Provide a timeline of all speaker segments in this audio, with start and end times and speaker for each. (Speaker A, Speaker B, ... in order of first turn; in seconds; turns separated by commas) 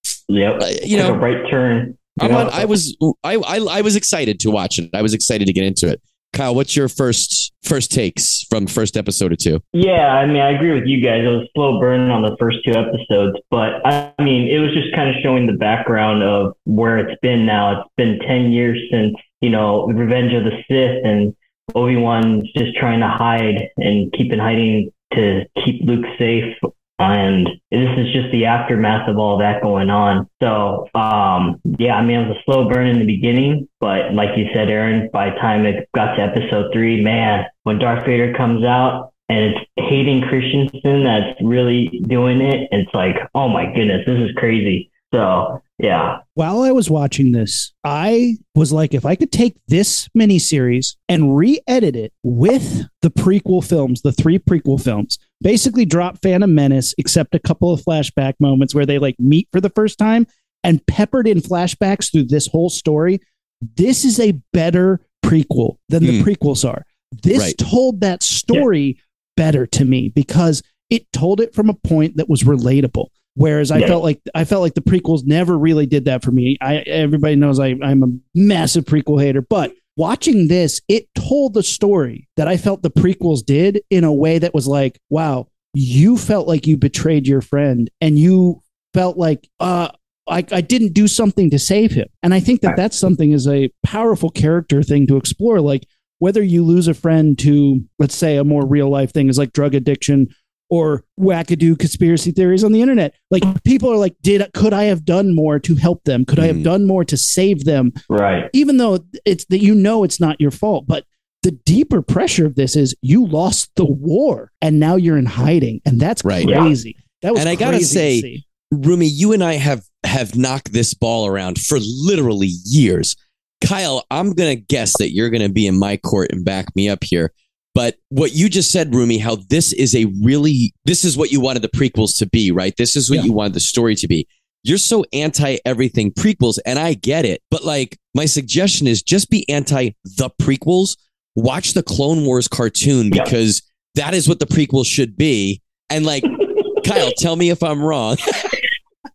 Speaker A: 0.3-2.7, Speaker B: 0.6-1.2, Speaker B: 2.2-9.6, Speaker A: 9.7-46.2, Speaker C: 46.4-63.2, Speaker C: 63.8-107.9, Speaker B: 66.0-66.3, Speaker B: 106.4-106.7, Speaker A: 108.1-108.5, Speaker C: 108.5-118.4, Speaker B: 116.2-116.5, Speaker A: 116.4-116.7, Speaker B: 117.3-148.6, Speaker A: 146.3-146.8